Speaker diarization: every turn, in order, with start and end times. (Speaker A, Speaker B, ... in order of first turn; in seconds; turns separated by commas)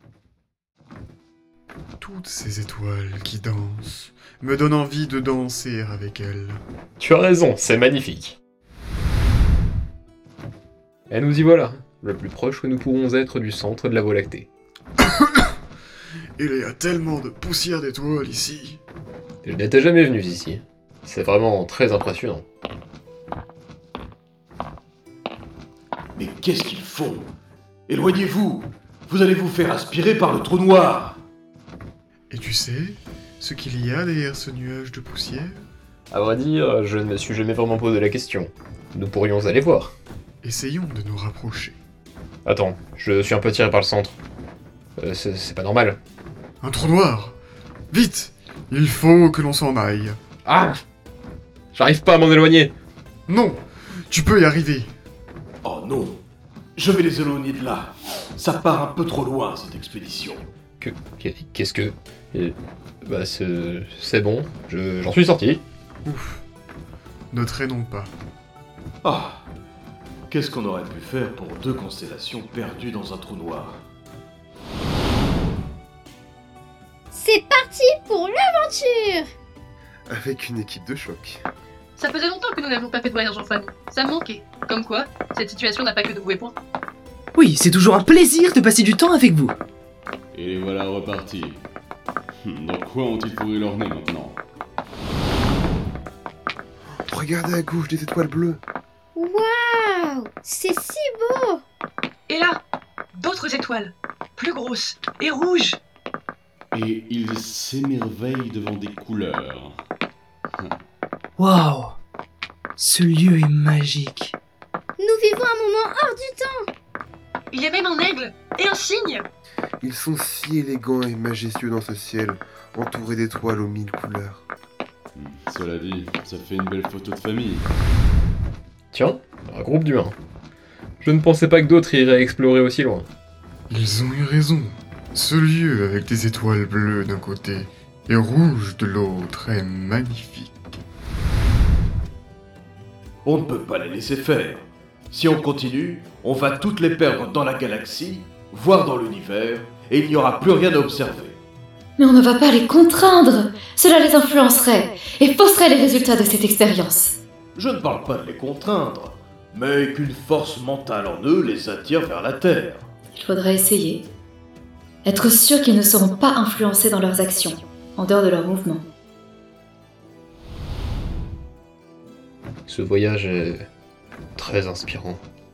Speaker A: 2.0-6.6, Speaker B: 7.0-8.4, Speaker B: 11.1-14.5, Speaker A: 15.0-15.5, Speaker A: 16.4-18.8, Speaker B: 19.4-22.4, Speaker C: 26.2-27.3, Speaker C: 27.9-31.2, Speaker A: 32.3-35.6, Speaker B: 36.1-39.9, Speaker A: 40.4-41.8, Speaker B: 42.4-44.2, Speaker B: 45.0-46.0, Speaker A: 46.6-47.4, Speaker A: 47.9-50.2, Speaker B: 50.4-50.8, Speaker B: 51.7-52.7, Speaker A: 53.3-54.9, Speaker C: 55.6-56.2, Speaker C: 56.8-60.5, Speaker B: 60.8-65.6, Speaker A: 66.0-66.4, Speaker A: 67.3-68.1, Speaker C: 69.0-69.5, Speaker C: 70.3-73.8, Speaker D: 77.1-79.3, Speaker E: 80.1-81.4, Speaker F: 82.0-86.5, Speaker G: 87.3-89.6, Speaker H: 90.3-91.6, Speaker H: 92.4-94.4, Speaker E: 97.1-98.6, Speaker D: 99.1-101.6, Speaker F: 102.3-102.6, Speaker F: 103.1-105.8, Speaker H: 106.7-109.8, Speaker G: 111.4-112.0, Speaker G: 112.8-114.3, Speaker D: 115.0-116.7, Speaker F: 117.5-119.3, Speaker E: 119.8-124.4, Speaker H: 125.1-127.7, Speaker B: 128.9-130.1, Speaker B: 131.0-133.1, Speaker A: 133.7-140.8, Speaker C: 143.2-151.4, Speaker I: 152.0-157.2, Speaker C: 157.6-162.9, Speaker I: 163.1-164.1, Speaker I: 165.0-168.8, Speaker B: 172.7-173.7, Speaker B: 174.4-175.2